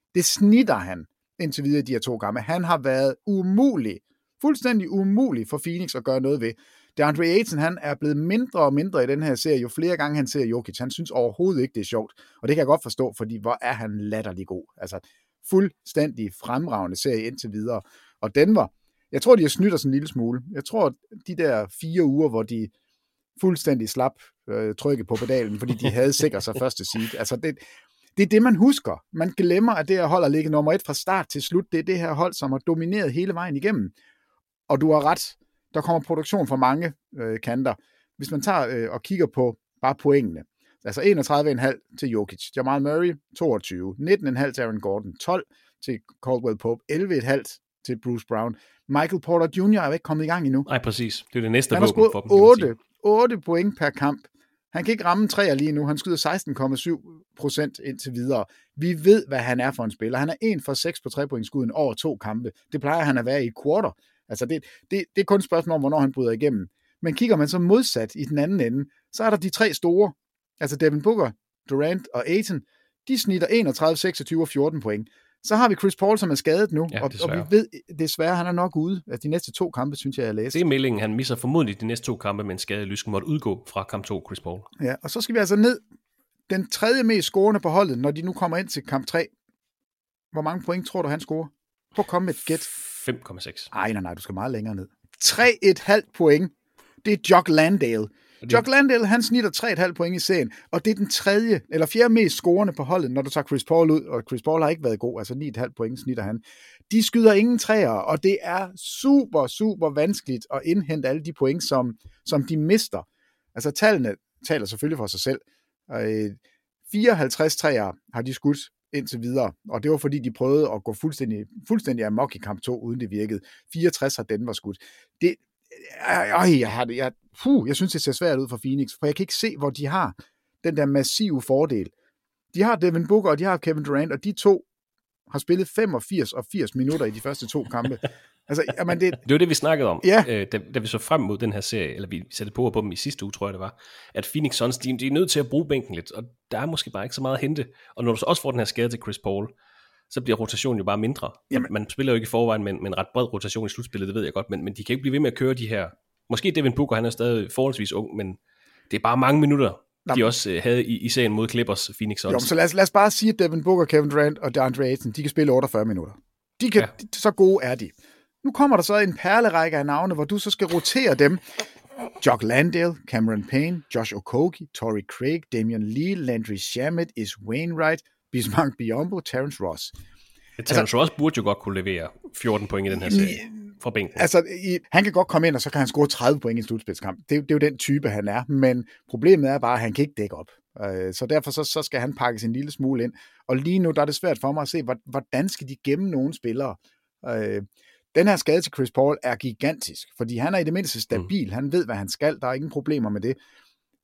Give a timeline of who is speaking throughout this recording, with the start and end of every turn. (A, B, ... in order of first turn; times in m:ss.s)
0:00.1-0:22.7 A
0:23.4-0:27.6 A
0:28.2-0:33.9 A
0:34.7-0:50.7 A
0:50.7-0:52.7 B
0:51.7-1:20.6 A
1:16.9-1:17.5 B
1:20.5-1:24.7 B
1:24.8-1:25.8 A
1:26.5-1:29.3 A
1:30.3-1:32.7 A
1:32.7-1:33.7 B
1:33.7-1:36.5 A
1:37.0-1:56.4 A
1:56.9-2:11.9 A
2:12.5-2:14.6 A
2:15.3-2:19.2 A
2:19.2-2:29.5 B
2:20.0-2:20.3 A
2:30.1-2:38.4 B
2:38.9-2:42.5 B
2:40.1-2:40.3 A
2:42.3-2:47.9 A
2:48.4-2:51.4 A
2:52.2-2:59.9 A
3:00.6-3:04.3 B
3:02.9-3:23.4 A